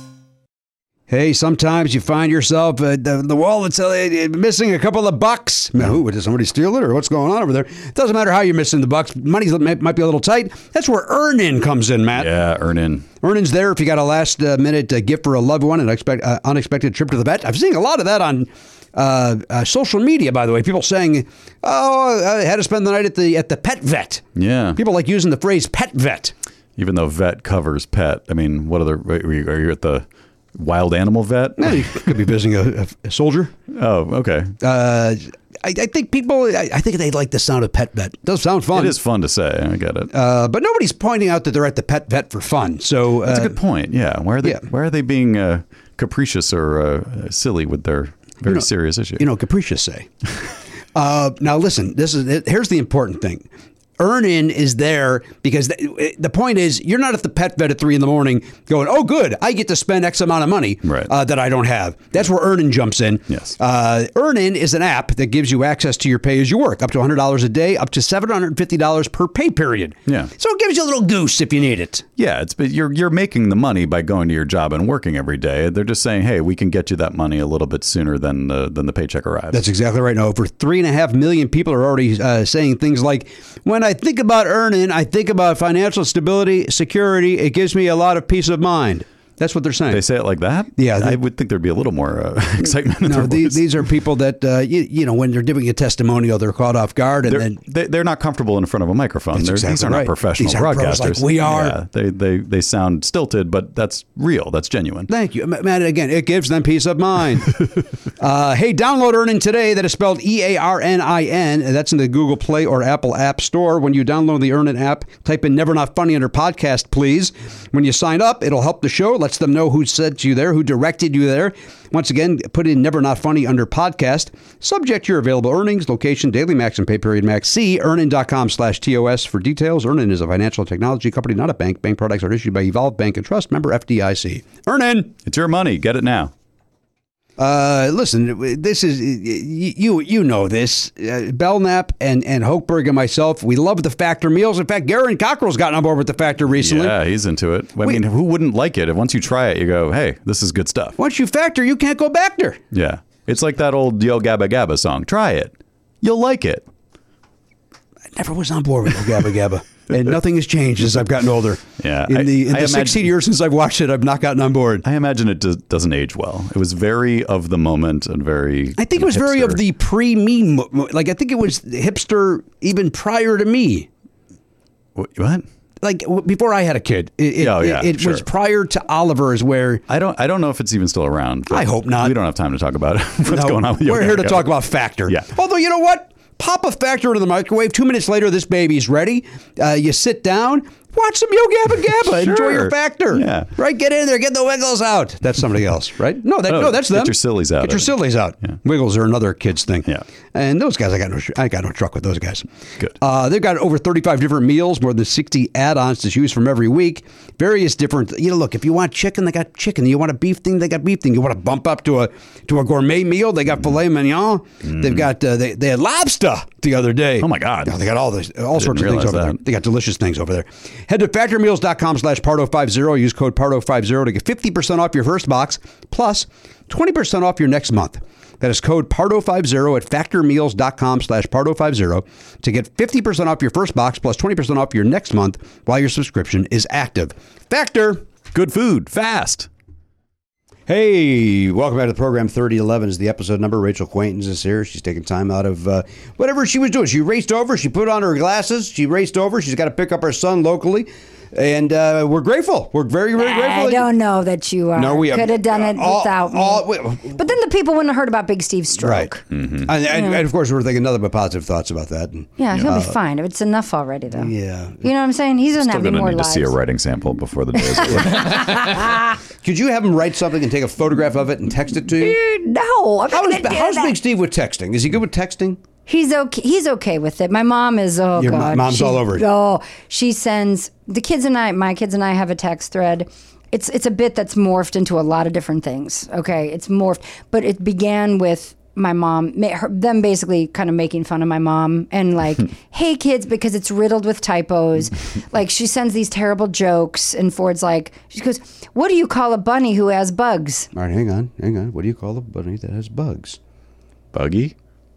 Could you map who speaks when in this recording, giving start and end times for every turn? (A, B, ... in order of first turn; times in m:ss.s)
0:01.1-0:12.3 A
0:12.2-0:13.1 B
0:13.2-0:24.2 A
0:24.4-0:24.8 B
0:24.8-0:26.3 A
0:26.8-0:32.1 B
0:31.6-0:33.5 A
0:33.7-0:34.6 B
0:34.6-0:39.0 A
0:38.7-0:40.1 B
0:40.1-0:43.6 A
0:43.2-0:49.3 B
0:49.2-0:50.1 A
0:51.0-0:53.5 A
0:54.0-1:12.0 A
1:00.8-1:01.1 B
1:12.2-1:19.6 B
1:19.5-1:30.0 A
1:29.9-1:33.6 B
1:30.8-1:31.2 A
1:33.0-1:37.6 A
1:37.3-1:45.1 B
1:39.3-1:41.8 A
1:45.1-2:15.1 A
2:15.2-2:16.3 B
2:17.4-2:27.0 A
2:26.6-2:31.0 B
2:31.0-2:32.6 A
2:32.7-2:36.7 B
2:38.2-2:44.8 A
2:41.8-2:43.1 B
2:44.8-2:49.6 B
2:48.8-2:53.9 A
2:55.0-2:55.5 B
2:55.8-2:59.8 A
2:57.4-2:58.2 B
2:59.9-3:05.3 B
3:01.5-3:02.2 A
3:03.3-3:22.4 A
3:12.0-3:13.5 B
3:16.5-3:18.6 B
3:23.0-3:58.0 A
3:34.6-3:35.0 B
3:37.2-3:37.8 B
3:38.6-3:39.4 B
3:58.3-3:59.5 B
4:00.7-4:13.9 A
4:13.2-4:19.2 C
4:14.8-4:17.3 A
4:18.8-4:19.1 A
4:19.3-4:19.7 B
4:19.7-4:23.0 A
4:19.9-4:20.2 C
4:22.4-4:26.6 C
4:24.1-4:24.9 A
4:25.6-4:28.5 B
4:27.6-4:29.2 C
4:29.4-4:32.2 A
4:32.0-4:34.0 C
4:33.1-4:35.6 A
4:35.9-5:00.7 C
4:38.2-4:39.3 A
5:00.7-5:03.4 A
5:04.1-5:04.5 B